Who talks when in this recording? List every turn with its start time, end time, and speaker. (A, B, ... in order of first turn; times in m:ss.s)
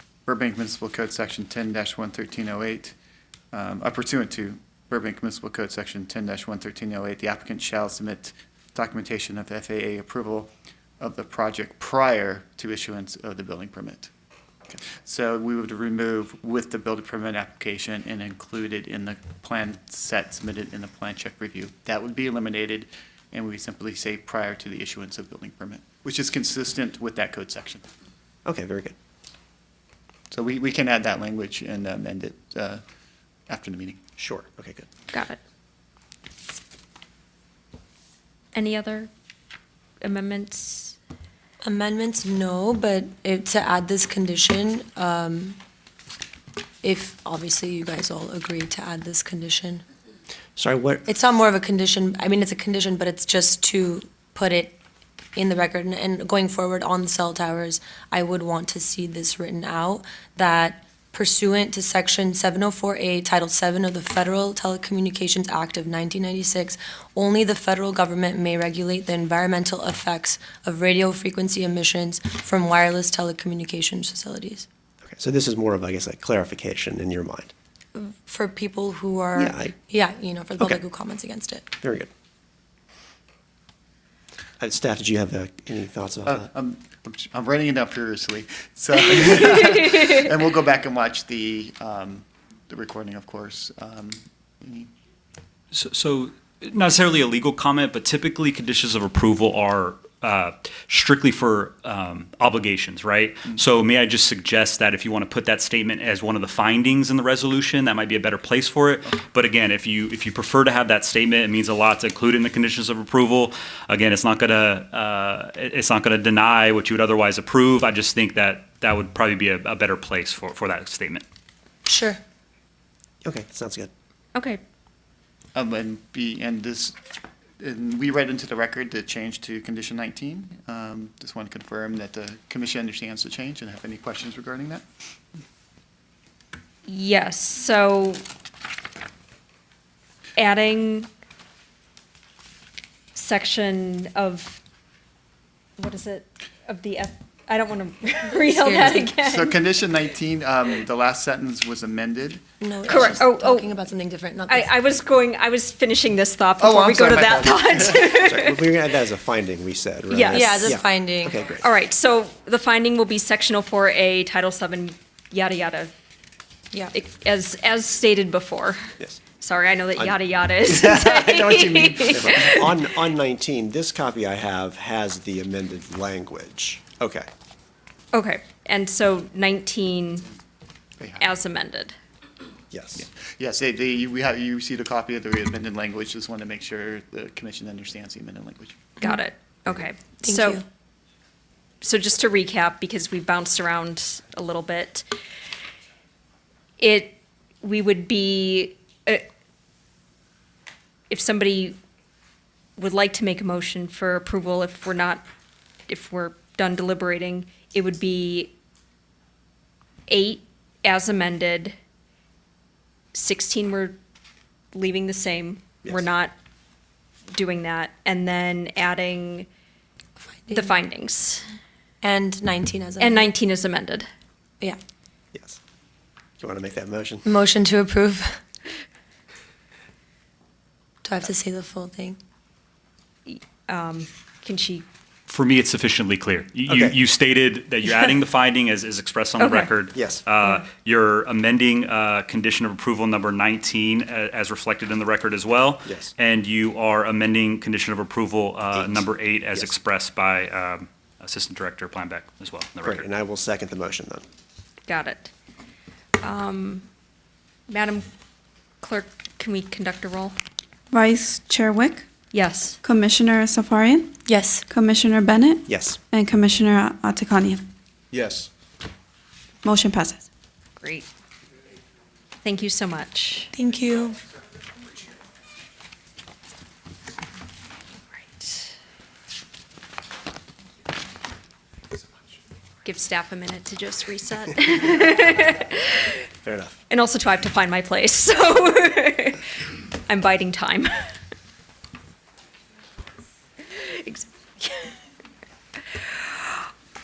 0:00.3-0:03.0 A
0:03.5-0:14.1 A
0:14.8-0:27.9 A
0:28.4-0:29.0 B
0:30.3-0:32.8 A
0:33.5-0:34.0 A
0:34.2-0:34.9 B
0:35.1-0:35.4 C
0:38.5-0:39.1 C
0:40.0-0:41.0 C
0:41.6-0:45.6 D
0:46.8-0:49.8 D
0:50.6-0:51.1 B
0:51.1-0:54.8 D
0:55.4-1:14.7 D
1:15.0-1:17.5 B
1:18.0-1:21.7 D
1:19.4-1:19.7 B
1:21.8-1:22.1 B
1:24.6-1:26.5 B
1:26.3-1:34.9 A
1:35.7-2:01.2 E
2:01.9-2:02.2 D
2:03.2-2:03.9 B
2:04.4-2:04.6 C
2:05.6-2:07.0 A
2:07.6-2:14.8 A
2:16.9-2:18.2 C
2:20.4-2:21.1 C
2:23.2-2:24.6 C
2:25.8-2:29.6 C
2:28.5-2:29.1 D
2:29.2-2:33.2 A
2:32.6-2:34.7 D
2:32.9-2:33.8 C
2:34.5-2:38.6 C
2:36.6-2:38.1 A
2:38.2-2:41.6 B
2:40.1-2:40.6 C
2:40.3-2:41.4 D
2:41.6-2:45.9 C
2:46.9-2:52.6 C
2:50.7-2:52.6 A
2:52.1-2:57.3 B
2:58.1-3:00.2 C
3:01.2-3:01.9 C
3:02.7-3:03.1 B
3:03.0-3:08.8 A
3:09.0-3:10.6 C
3:10.2-3:10.6 D
3:11.8-3:15.1 C
3:16.8-3:19.3 C
3:21.1-3:21.8 C
3:22.8-3:25.3 C
3:25.9-3:28.5 C
3:30.1-3:31.7 C
3:33.1-3:34.0 C
3:34.7-3:36.3 C
3:37.3-3:39.5 C
3:40.3-3:40.8 D
3:40.5-3:41.4 C
3:42.0-3:43.3 D
3:43.0-3:44.1 C
3:45.3-3:45.6 B
3:46.4-3:47.3 B
3:47.2-3:48.4 D
3:51.0-3:52.2 D
3:53.3-3:54.8 C
3:55.3-4:13.1 E
3:56.7-3:57.0 B
3:59.4-3:59.8 C
4:00.0-4:00.2 B
4:00.4-4:00.7 C
4:05.9-4:06.1 B
4:08.7-4:09.7 B
4:12.8-4:14.2 B
4:14.9-4:15.3 C
4:16.2-4:16.9 C
4:17.7-4:18.1 C
4:18.8-4:20.4 C
4:20.9-4:22.1 F
4:22.3-4:22.8 C
4:22.8-4:24.2 F
4:24.3-4:24.7 D
4:24.7-4:27.7 F
4:25.7-4:26.0 B
4:29.6-4:30.3 F
4:30.8-4:31.1 C
4:32.4-4:33.5 C
4:33.6-4:34.2 D
4:38.3-4:38.7 C
4:42.8-4:46.2 C
4:46.4-4:46.8 B
4:46.9-4:49.4 C
4:50.1-4:50.9 C
4:53.7-4:55.0 C
4:56.1-4:56.6 C